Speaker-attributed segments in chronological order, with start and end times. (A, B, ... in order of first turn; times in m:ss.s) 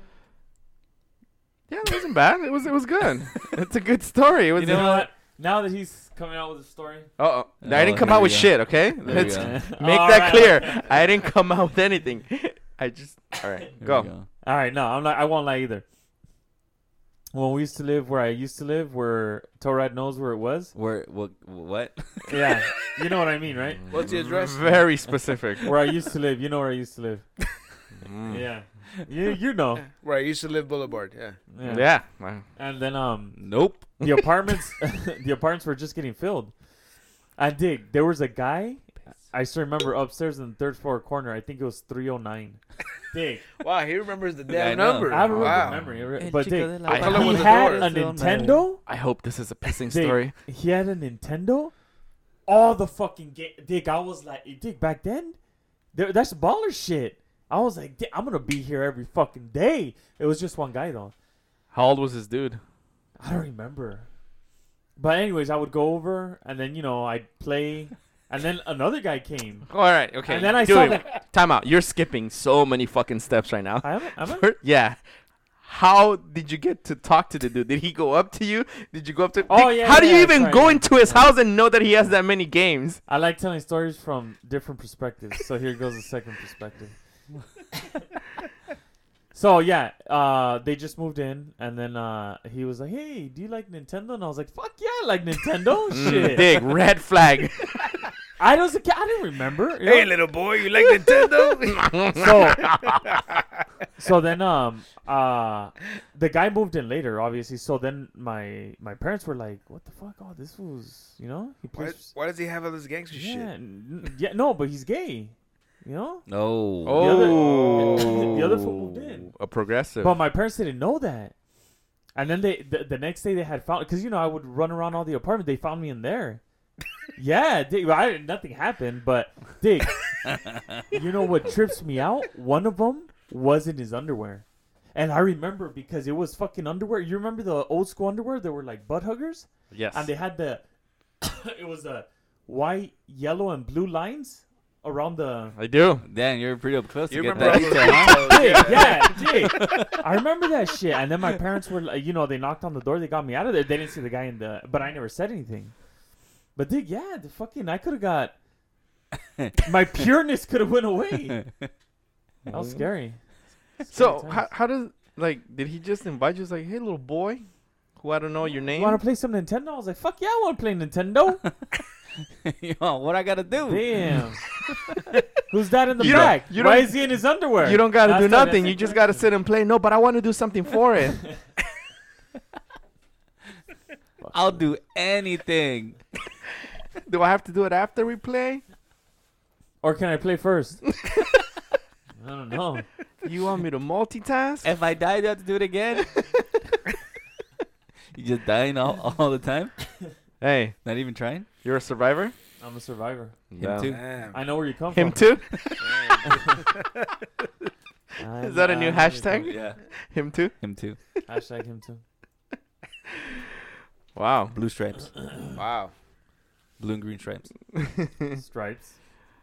0:01.7-0:05.1 A
0:04.6-0:05.0 B
0:04.6-0:07.1 C
0:07.2-0:14.1 A
0:07.6-0:09.6 B
0:09.1-0:11.0 C
0:13.8-0:14.3 B
0:14.4-0:15.8 C
0:17.3-0:20.7 C
0:20.7-0:22.5 B
0:22.3-0:23.8 C
0:23.9-0:25.7 A
0:23.9-0:24.8 D
0:25.6-0:27.3 C
0:28.0-0:28.5 A
0:28.3-0:29.8 C
0:30.0-0:31.4 D
0:31.5-0:32.0 C
0:31.6-0:32.4 A
0:32.5-0:36.5 C
0:33.4-0:33.9 B
0:37.4-0:43.5 C
0:43.6-0:45.9 D
0:44.5-0:48.6 B
0:45.1-0:48.8 C
0:46.9-0:47.4 A
0:46.9-0:47.9 D
0:48.8-0:50.3 A
0:49.9-0:51.7 C
0:52.4-0:55.4 C
0:55.9-1:01.1 C
1:01.7-1:02.6 A
1:03.2-1:04.1 C
1:05.0-1:11.1 C
1:09.7-1:15.0 A
1:13.8-1:14.5 C
1:15.6-1:23.0 A
1:19.5-1:21.3 C
1:23.1-1:27.0 C
1:29.3-1:36.6 C
1:35.9-1:37.9 A
1:38.4-1:40.1 C
1:39.8-1:42.4 D
1:41.0-1:43.0 A
1:42.1-1:42.7 C
1:43.1-1:43.4 D
1:44.0-1:52.1 C
1:51.7-1:53.5 D
1:53.1-1:56.3 C
1:56.3-1:57.0 B
1:56.8-2:00.2 A
1:56.9-1:59.3 C
1:57.0-1:58.4 D
2:00.0-2:01.3 C
2:02.1-2:06.4 C
2:07.2-2:10.3 C
2:10.6-2:10.8 B
2:10.9-2:20.6 C
2:19.7-2:20.1 A
2:21.2-2:25.6 C
2:25.6-2:26.0 A
2:26.0-2:30.0 B
2:27.1-2:29.3 D
2:27.3-2:35.8 C
2:36.5-2:38.3 C
2:39.6-2:41.4 C
2:41.4-2:41.7 B
2:42.4-2:42.9 A
2:42.5-2:43.2 C
2:43.8-2:44.5 C
2:43.9-2:49.0 A
2:48.7-2:51.4 C
2:52.4-2:55.0 B
2:53.7-2:54.4 C
2:55.5-2:59.2 C
2:56.0-2:56.4 B
2:56.0-3:01.4 A
3:04.2-3:04.7 C
3:04.3-3:06.0 B
3:07.0-3:08.6 A
3:09.8-3:10.8 C
3:12.2-3:12.9 C
3:13.2-3:14.7 A
3:14.6-3:16.5 B
3:18.1-3:19.8 B
3:20.4-3:20.8 A
3:20.8-3:21.4 B
3:21.6-3:22.3 A
3:22.6-3:23.4 C
3:23.5-3:24.0 A
3:23.6-3:24.0 B
3:23.8-3:24.4 D
3:24.3-3:25.6 C
3:24.9-3:25.8 A
3:25.8-3:26.8 D
3:26.2-3:26.6 C
3:28.2-3:29.6 C
3:28.4-3:30.6 A
3:29.4-3:29.8 B
3:30.6-3:31.0 B
3:31.3-3:32.0 C
3:34.1-3:34.5 A
3:34.5-3:35.2 B
3:35.6-3:35.9 D
3:36.8-3:37.5 B
3:37.8-3:38.3 A
3:38.4-3:39.0 C